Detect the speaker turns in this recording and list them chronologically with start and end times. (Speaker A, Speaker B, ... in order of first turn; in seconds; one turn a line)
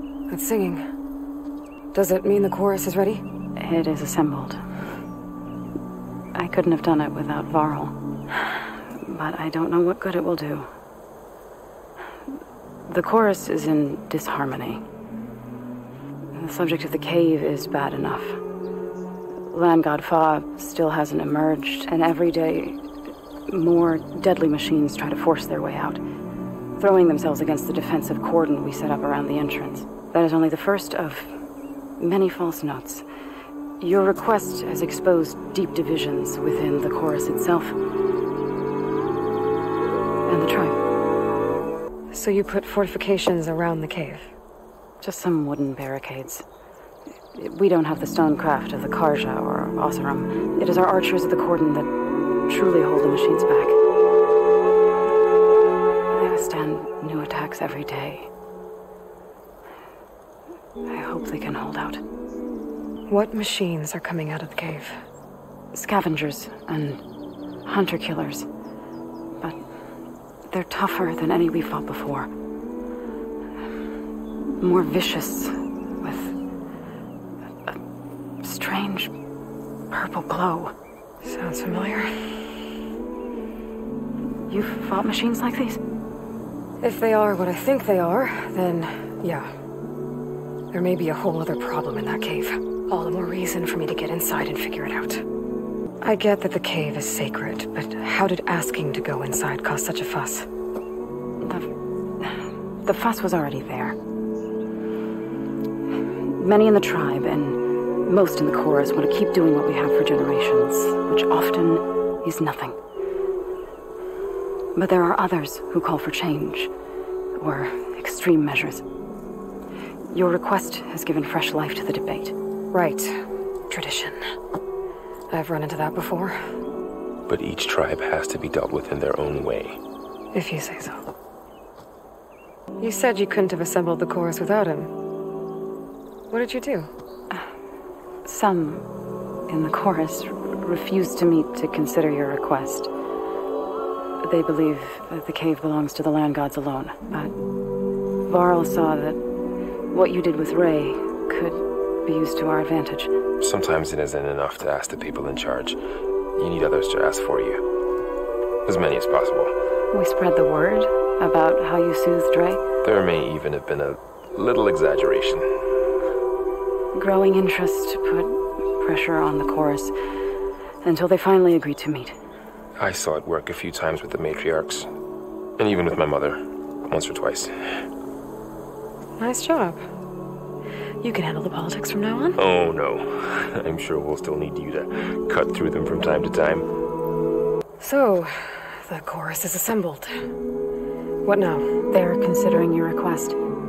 Speaker A: 0.3-0.8
Speaker A: 1.9-3.2
Speaker B: 3.6-4.6
Speaker B: 6.4-10.7
Speaker B: 12.9-14.8
Speaker B: 16.4-18.4
Speaker B: 19.5-22.8
Speaker B: 23.5-26.0
Speaker B: 26.8-31.4
Speaker B: 32.0-33.0
Speaker B: 33.8-37.8
Speaker B: 40.3-40.8
Speaker A: 42.1-44.3
Speaker B: 45.0-46.4
Speaker B: 47.3-51.9
Speaker B: 52.5-53.8
Speaker B: 56.1-58.3
Speaker B: 60.9-62.0
Speaker A: 63.1-65.0
Speaker B: 65.7-67.0
Speaker B: 67.7-68.5
Speaker B: 70.5-72.3
Speaker B: 74.6-76.3
Speaker B: 78.4-79.1
Speaker B: 79.9-80.7
Speaker A: 81.2-82.1
Speaker B: 84.5-85.8
Speaker A: 86.8-89.5
Speaker A: 90.7-95.2
Speaker A: 96.0-100.5
Speaker B: 102.8-104.0
Speaker B: 106.4-112.8
Speaker B: 114.8-116.7
Speaker B: 117.4-118.8
Speaker B: 120.1-122.3
Speaker A: 122.7-123.2
Speaker A: 123.7-124.2
Speaker A: 125.3-126.4
Speaker C: 127.3-129.8
Speaker A: 130.3-131.0
Speaker A: 132.8-134.9
Speaker A: 136.3-136.9
Speaker B: 138.2-138.9
Speaker B: 139.5-142.9
Speaker B: 144.2-147.3
Speaker B: 148.3-149.2
Speaker B: 149.9-153.1
Speaker C: 153.4-155.8
Speaker C: 156.4-157.6
Speaker C: 158.7-159.5
Speaker B: 159.9-162.6
Speaker C: 162.8-165.5
Speaker B: 166.9-169.9
Speaker B: 170.8-172.2
Speaker C: 172.8-174.9
Speaker C: 175.6-177.6
Speaker A: 179.2-179.8
Speaker A: 181.0-182.4
Speaker C: 182.4-186.7
Speaker A: 187.8-190.2
Speaker A: 191.2-191.7
Speaker B: 191.9-193.4